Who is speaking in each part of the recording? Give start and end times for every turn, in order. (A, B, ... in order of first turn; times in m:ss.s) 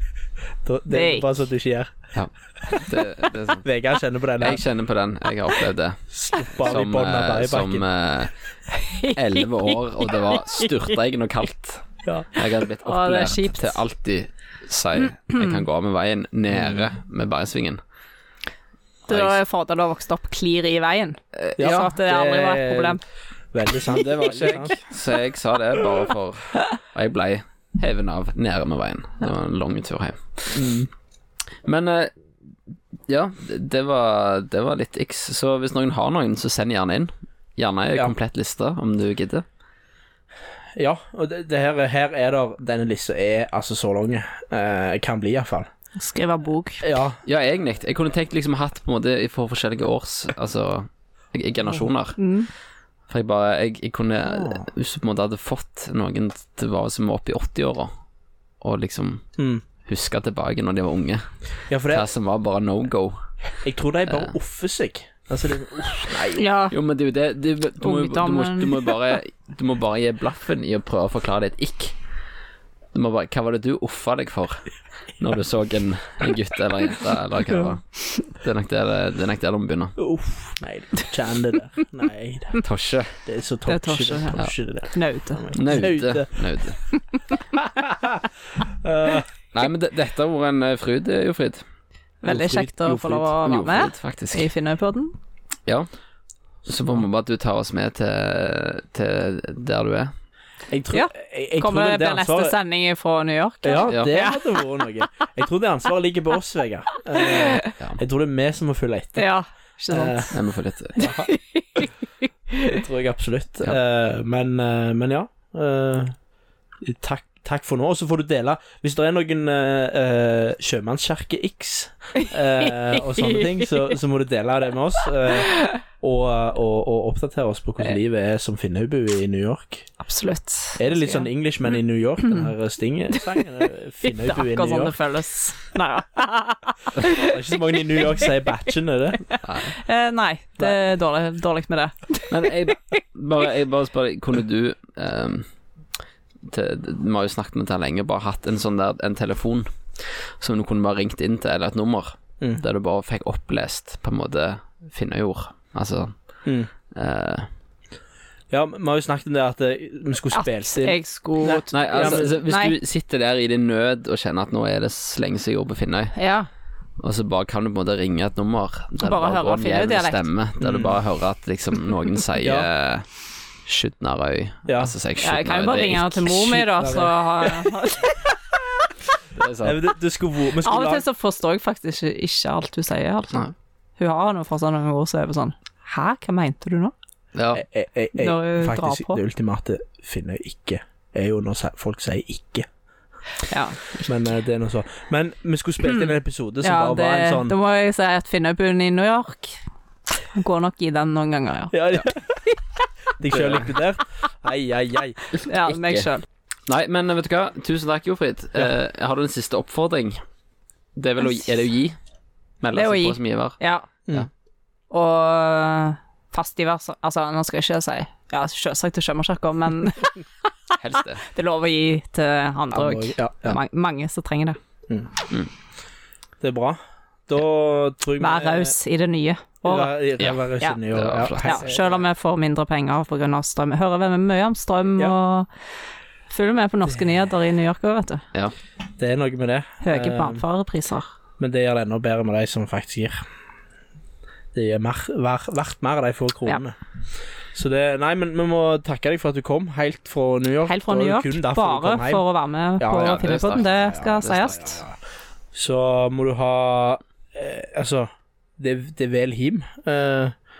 0:00.6-0:01.9 A
0:00.9-0:01.4 B
0:02.1-0:03.6 C
0:03.6-0:04.6 A
0:04.4-0:08.3 C
0:06.1-0:07.8 A
0:08.7-0:10.9 B
0:09.1-0:17.8 C
0:12.8-0:13.8 B
0:15.3-0:15.6 B
0:16.5-0:16.9 A
0:19.1-0:19.4 C
0:19.1-0:23.0 B
0:21.6-0:23.0 A
0:23.5-0:24.8 A
0:23.9-0:30.7 C
0:30.5-0:30.9 A
0:31.6-0:32.1 C
0:33.1-0:39.4 C
0:40.8-0:45.7 A
0:46.0-0:46.8 B
0:46.8-0:47.2 A
0:47.2-0:52.2 C
0:52.2-0:52.5 B
0:53.1-0:57.9 C
0:54.2-0:54.6 A
0:58.6-0:59.2 C
0:59.4-0:59.6 A
0:59.8-1:01.3 C
1:01.7-1:02.1 A
1:01.9-1:03.2 C
1:03.6-1:06.4 A
1:06.4-1:06.8 B
1:06.7-1:12.0 C
1:07.8-1:09.0 B
1:12.9-1:20.0 C
1:20.0-1:22.6 A
1:22.6-1:23.1 C
1:23.2-1:26.4 A
1:23.7-1:25.4 B
1:25.5-1:26.8 C
1:27.6-1:29.3 A
1:29.5-1:31.6 C
1:32.2-1:35.1 B
1:32.3-1:33.3 A
1:33.4-1:34.5 C
1:36.6-1:40.1 C
1:40.7-1:42.5 A
1:40.9-1:44.8 B
1:43.6-1:49.2 A
1:47.1-1:47.7 B
1:49.2-1:50.4 B
1:49.9-1:50.3 A
1:50.3-1:51.1 C
1:51.0-1:51.3 A
1:51.0-1:51.9 B
1:52.6-1:56.2 A
1:56.8-2:09.9 A
2:03.1-2:03.4 B
2:05.4-2:05.8 B
2:10.0-2:11.2 B
2:10.8-2:15.0 A
2:14.0-2:18.3 B
2:17.0-2:19.2 A
2:19.3-2:23.0 B
2:19.4-2:19.7 C
2:22.3-2:25.5 C
2:26.4-2:37.5 C
2:36.4-2:36.7 A
2:38.5-2:42.3 A
2:40.3-2:42.8 B
2:41.7-2:46.1 C
2:46.1-2:46.5 B
2:47.0-2:53.1 C
2:49.0-2:50.2 B
2:50.6-2:51.0 A
2:52.4-2:52.7 A
2:53.6-2:56.3 C
2:54.6-2:54.9 A
2:55.2-2:58.2 B
2:56.3-2:57.7 A
2:59.3-2:59.8 C
2:59.6-3:01.0 A
3:00.6-3:03.4 B
3:04.0-3:06.9 B
3:07.3-3:07.6 C
3:07.5-3:12.7 A
3:08.2-3:09.2 B
3:13.4-3:14.0 B
3:14.0-3:17.5 A
3:15.8-3:19.6 B
3:20.2-3:21.8 B
3:21.7-3:22.5 A
3:23.2-3:25.3 A
3:23.3-3:23.6 C
3:25.4-3:26.2 B
3:25.6-3:26.1 C
3:26.7-3:30.2 C
3:31.0-3:32.0 C
3:32.6-3:33.6 C
3:32.7-3:33.9 B
3:34.9-3:40.2 B
3:40.8-3:41.2 C
3:41.2-3:44.6 B
3:42.7-3:43.6 A
3:46.4-3:48.7 A
3:48.2-3:49.9 B
3:49.6-3:52.0 A
3:50.2-3:51.6 C
3:51.4-3:55.5 B
3:56.3-3:58.2 B
3:59.0-4:00.4 A
3:59.8-4:01.1 B
4:01.4-4:03.2 A
4:04.5-4:06.8 A
4:07.5-4:12.2 A
4:10.6-4:14.8 B
4:12.8-4:15.0 A
4:13.0-4:14.6 C
4:15.5-4:20.3 A